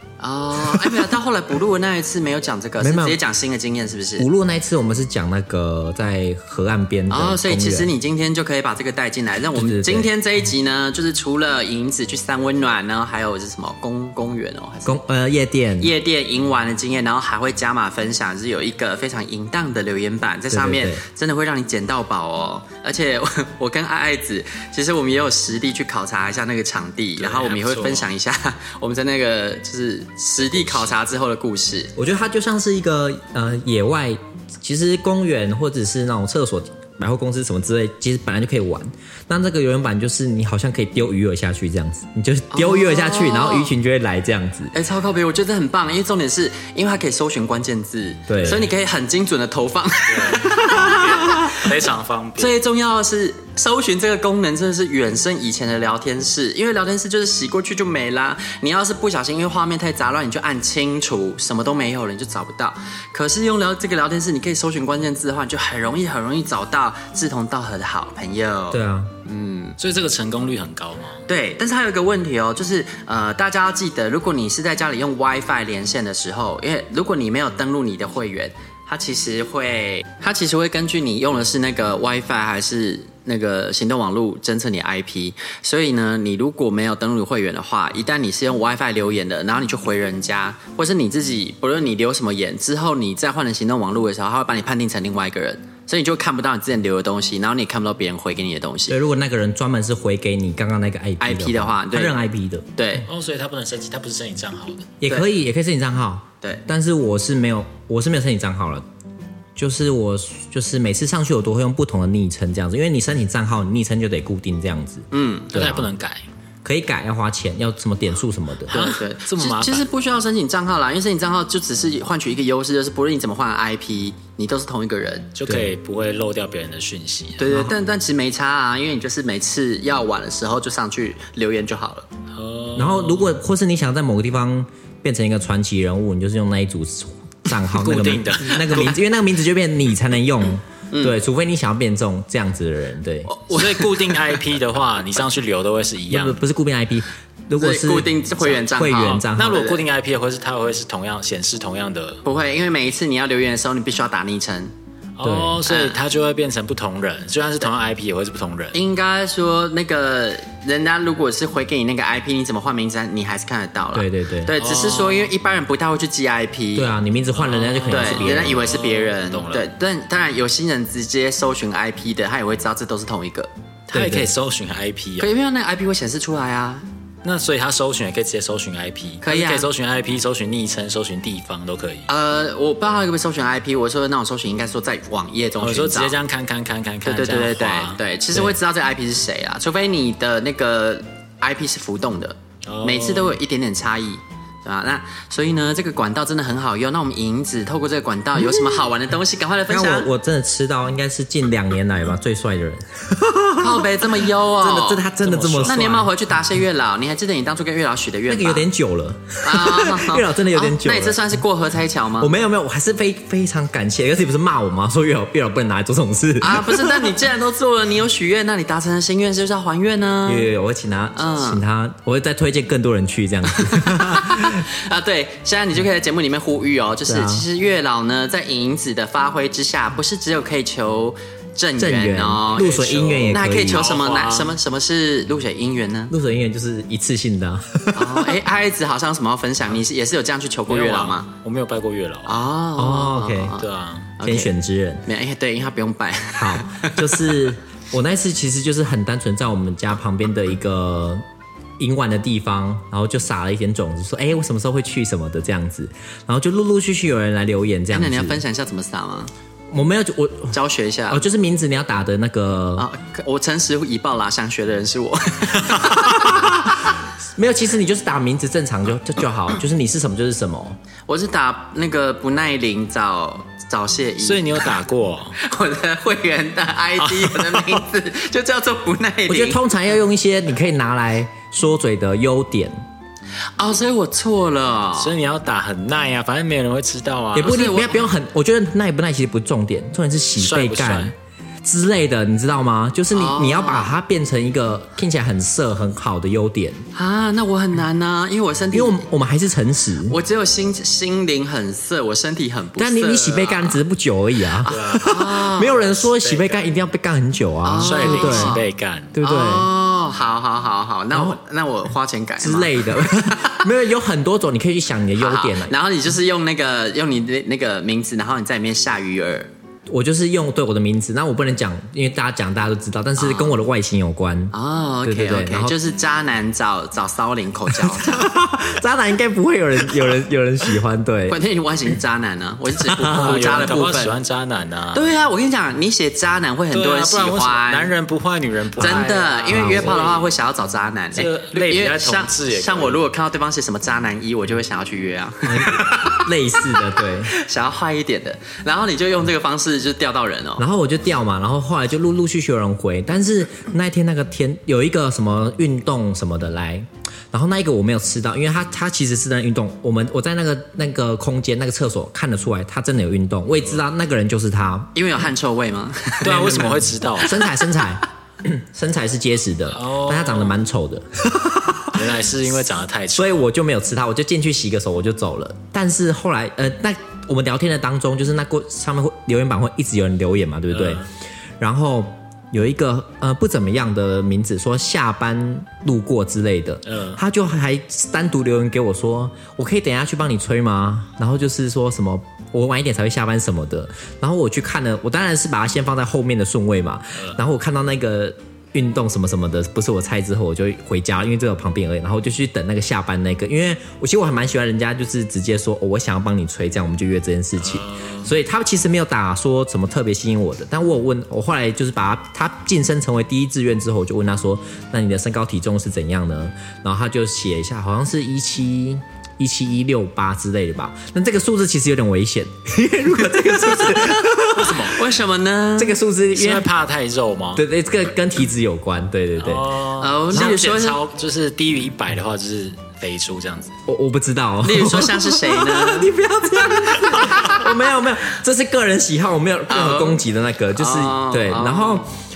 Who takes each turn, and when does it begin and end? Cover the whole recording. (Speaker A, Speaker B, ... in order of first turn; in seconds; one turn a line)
Speaker A: 0.2-4.2
Speaker B: 0.6-1.1
Speaker B: 2.8-3.2
Speaker B: 4.2-7.9
Speaker A: 7.1-15.0
Speaker B: 9.5-10.1
Speaker B: 14.8-15.9
Speaker A: 15.8-31.9
Speaker B: 20.5-21.0
Speaker C: 27.2-28.1
Speaker B: 31.9-44.7
Speaker A: 42.5-43.7
Speaker A: 44.7-51.6
Speaker B: 48.3-48.6
Speaker C: 50.1-52.5
Speaker A: 52.4-69.8
Speaker B: 68.7-69.1
Speaker C: 69.8-71.2
Speaker A: 71.3-99.0
Speaker B: 98.9-102.7
Speaker A: 101.2-102.2
Speaker A: 102.8-103.0
Speaker C: 103.0-104.9
Speaker B: 105.0-108.8
Speaker B: 109.5-115.9
Speaker A: 115.1-115.5
Speaker C: 115.5-116.2
Speaker B: 116.6-118.8
Speaker C: 118.7-119.9
Speaker A: 118.7-125.3
Speaker C: 125.3-127.4
Speaker B: 125.4-125.7
Speaker A: 127.4-132.1
Speaker B: 127.5-127.7
Speaker C: 132.3-133.3
Speaker B: 132.8-143.3
Speaker C: 137.7-138.9
Speaker A: 138.5-138.9
Speaker A: 140.9-141.2
Speaker A: 143.3-144.2
Speaker C: 143.5-146.4
Speaker B: 146.1-149.6
Speaker A: 147.6-149.8
Speaker C: 149.2-152.2
Speaker A: 152.2-154.7
Speaker C: 155.2-158.8
Speaker B: 155.2-155.6
Speaker A: 155.7-156.0
Speaker A: 158.7-166.9
Speaker B: 163.9-164.5
Speaker C: 164.6-165.3
Speaker B: 166.7-168.6
Speaker C: 167.3-169.7
Speaker A: 167.9-173.5
Speaker B: 173.9-174.3
Speaker C: 173.9-175.3
Speaker A: 175.2-176.8
Speaker C: 177.2-182.1
Speaker A: 179.2-179.7
Speaker A: 182.1-186.1
Speaker C: 185.6-188.5
Speaker A: 187.0-200.1
Speaker C: 192.7-193.4
Speaker B: 198.4-198.8
Speaker B: 199.7-206.1
Speaker A: 203.6-205.0
Speaker C: 205.2-206.0
Speaker A: 205.7-208.7
Speaker B: 208.3-211.2
Speaker A: 209.4-212.3
Speaker B: 212.2-217.2
Speaker A: 216.4-220.5
Speaker B: 220.2-224.6
Speaker A: 221.1-221.6
Speaker A: 223.5-236.1
Speaker B: 227.1-227.4
Speaker B: 231.8-233.9
Speaker C: 232.5-234.5
Speaker B: 236.1-238.4
Speaker A: 237.9-241.3
Speaker C: 240.7-242.3
Speaker A: 242.2-243.7
Speaker B: 242.8-243.6
Speaker C: 243.6-244.1
Speaker A: 244.2-244.5
Speaker B: 244.2-245.0
Speaker A: 245.1-247.4
Speaker B: 246.3-251.2
Speaker B: 251.8-258.4
Speaker A: 257.9-259.3
Speaker B: 259.7-260.6
Speaker A: 260.5-261.2
Speaker B: 261.1-262.9
Speaker A: 262.8-266.6
Speaker B: 266.1-266.9
Speaker B: 267.4-270.8
Speaker A: 271.1-274.7
Speaker C: 274.2-275.4
Speaker A: 275.4-279.6
Speaker C: 277.0-277.8
Speaker B: 279.3-282.8
Speaker A: 283.6-285.1
Speaker C: 284.9-287.6
Speaker B: 287.3-296.8
Speaker A: 287.4-288.1
Speaker C: 290.4-291.1
Speaker A: 293.1-293.9
Speaker A: 296.9-299.0
Speaker B: 298.7-300.2
Speaker A: 300.1-303.8
Speaker B: 302.8-308.6
Speaker C: 304.6-306.6
Speaker A: 304.7-305.8
Speaker A: 307.6-308.6
Speaker C: 307.8-309.1
Speaker B: 309.1-309.7
Speaker A: 309.2-313.6
Speaker B: 311.1-311.4
Speaker B: 312.4-315.7
Speaker A: 315.2-319.5
Speaker B: 319.9-324.5
Speaker A: 323.2-323.5
Speaker A: 324.5-328.3
Speaker B: 325.0-325.7
Speaker B: 327.7-331.4
Speaker A: 331.3-334.1
Speaker B: 332.9-333.6
Speaker C: 333.1-335.1
Speaker A: 334.9-337.9
Speaker C: 336.7-340.3
Speaker A: 338.8-346.3
Speaker B: 338.8-340.0
Speaker C: 341.1-343.0
Speaker B: 345.4-347.3
Speaker A: 347.3-350.6
Speaker B: 350.6-364.9
Speaker A: 364.9-366.7
Speaker C: 366.2-367.3
Speaker B: 366.3-372.1
Speaker C: 369.7-370.6
Speaker C: 371.9-373.4
Speaker B: 373.1-381.0
Speaker C: 380.7-381.1
Speaker B: 381.6-424.9
Speaker C: 386.9-387.2
Speaker C: 407.6-408.3
Speaker A: 423.8-424.2
Speaker C: 424.5-425.0
Speaker A: 424.9-425.9
Speaker B: 425.8-426.7
Speaker C: 426.3-427.6
Speaker B: 427.6-429.7
Speaker C: 429.4-433.7
Speaker A: 430.0-431.0
Speaker B: 433.9-442.1
Speaker A: 434.6-436.1
Speaker C: 437.1-437.4
Speaker A: 439.7-440.2
Speaker A: 440.8-442.1